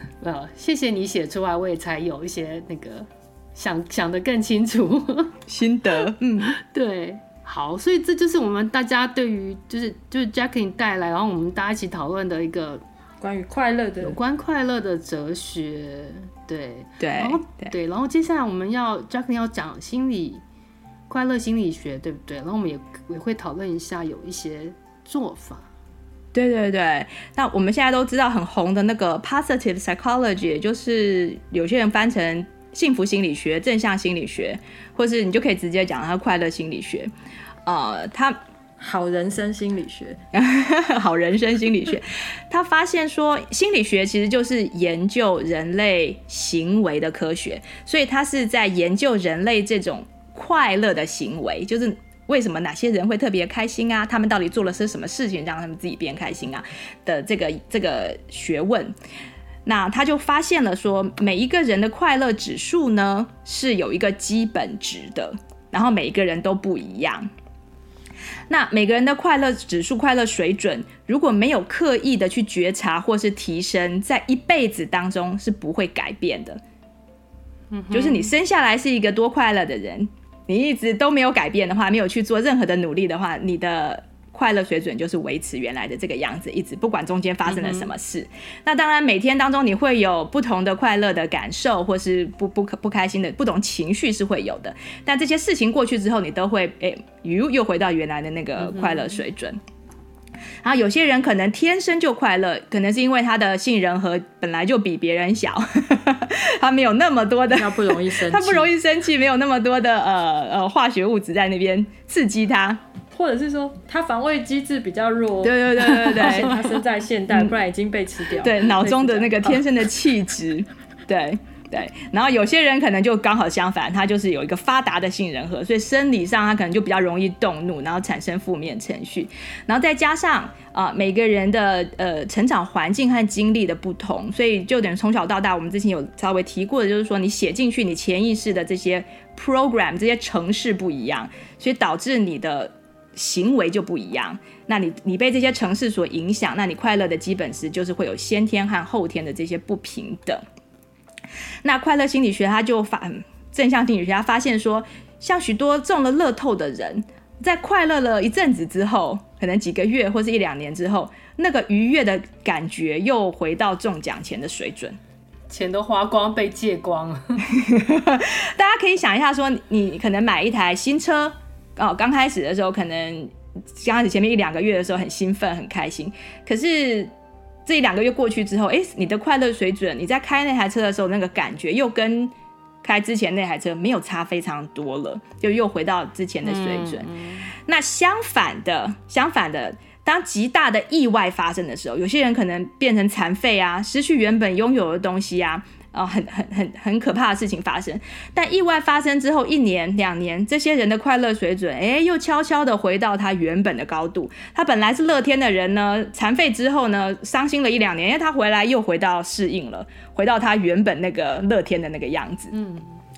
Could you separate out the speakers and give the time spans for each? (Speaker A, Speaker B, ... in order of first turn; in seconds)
Speaker A: 0.2-5.3, 6.5-12.8, 14.0-20.4, 21.1-25.6, 77.7-78.3, 87.5-87.9, 165.5-167.4, 186.4-187.5, 212.5-212.9
Speaker B: 5.5-6.5, 17.0-17.7, 26.3-37.1, 37.6-38.4, 40.3-58.9, 59.6-67.3, 68.5-76.6, 77.9-99.6, 100.6-112.8, 115.4-116.7, 118.4-150.4, 151.6-165.0, 167.5-177.1, 177.7-187.1, 187.6-212.6
Speaker C: 13.2-14.2, 38.8-40.2, 107.5-108.7, 113.1-119.6